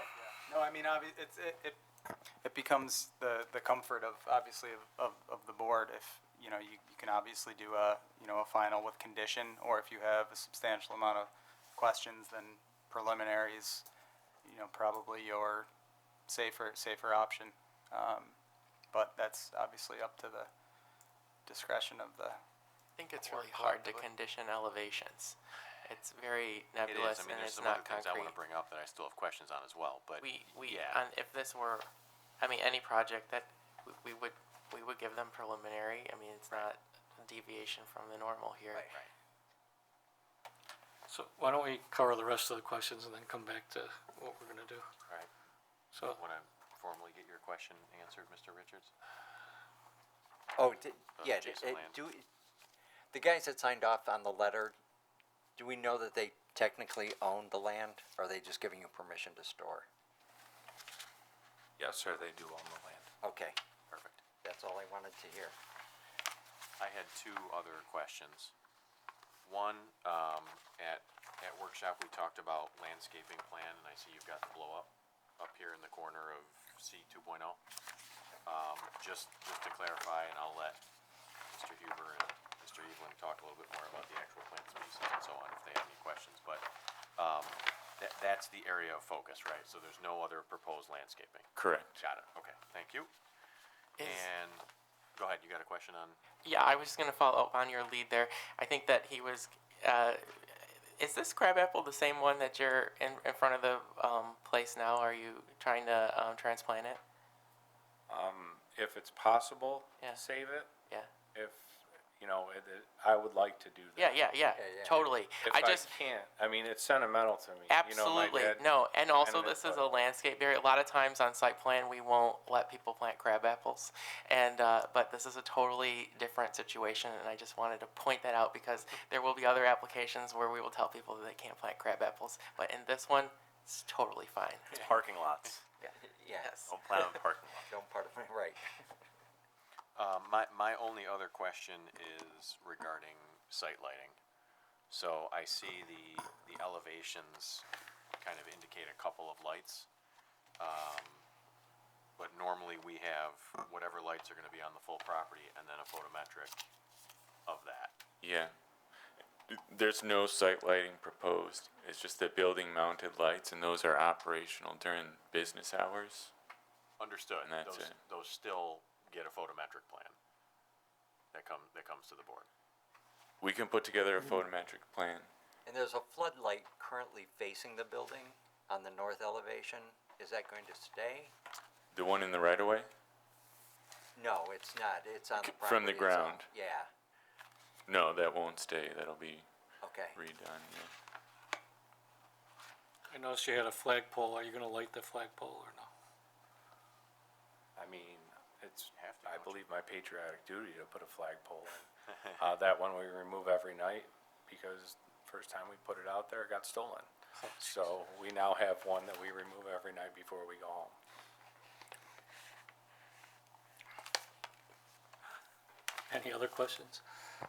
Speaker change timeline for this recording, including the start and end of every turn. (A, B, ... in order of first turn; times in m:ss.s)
0:00.2-0:01.8 A
0:02.4-0:13.8 A
0:14.4-0:15.7 A
0:16.3-0:18.4 A
0:18.9-0:20.5 A
0:21.4-0:22.4 A
0:23.0-0:28.4 B
0:23.2-0:24.0 C
0:26.8-0:31.0 C
0:30.2-0:31.9 B
0:32.4-0:38.9 B
0:41.1-0:44.9 D
0:45.9-0:46.2 D
0:46.1-0:48.9 C
0:50.6-0:52.2 E
0:51.2-0:52.0 C
0:53.1-0:54.8 E
0:55.6-0:59.9 E
1:01.8-1:03.1 F
1:03.2-1:03.6 E
1:03.9-1:04.2 C
1:04.4-1:05.5 E
1:06.8-1:08.5 C
1:09.4-1:17.6 C
1:18.4-1:20.8 C
1:21.5-1:33.1 C
1:31.6-1:32.0 G
1:34.0-1:34.3 B
1:34.0-1:34.6 C
1:35.2-1:36.2 C
1:36.4-1:47.0 B
1:48.1-1:50.7 F
1:51.3-1:54.2 F
1:54.0-1:56.0 B
1:54.5-1:55.1 E
1:55.4-2:00.0 F
1:57.7-2:14.8 B
2:14.8-2:15.6 H
2:15.8-2:16.6 E
2:16.4-2:17.2 B
2:16.6-2:17.7 H
2:17.7-2:18.8 E
2:20.0-2:24.2 C
2:24.9-2:27.6 C
2:28.2-2:29.9 C
2:30.6-2:31.2 C
2:32.2-2:36.6 C
2:37.5-2:37.9 C
2:38.2-2:38.5 G
2:39.5-2:46.3 G
2:47.0-2:50.2 C
2:47.4-2:48.0 G
2:51.3-2:52.5 C
2:53.4-2:55.3 G
2:55.6-3:01.3 E
3:01.9-3:02.9 G
3:04.2-3:06.9 E
3:05.4-3:06.4 G
3:07.9-3:09.5 G
3:09.8-3:10.2 E
3:10.1-3:10.9 G
3:13.1-3:15.9 D
3:17.8-3:31.0 F
3:18.9-3:19.7 C
3:27.4-3:27.9 D
3:36.1-3:37.0 D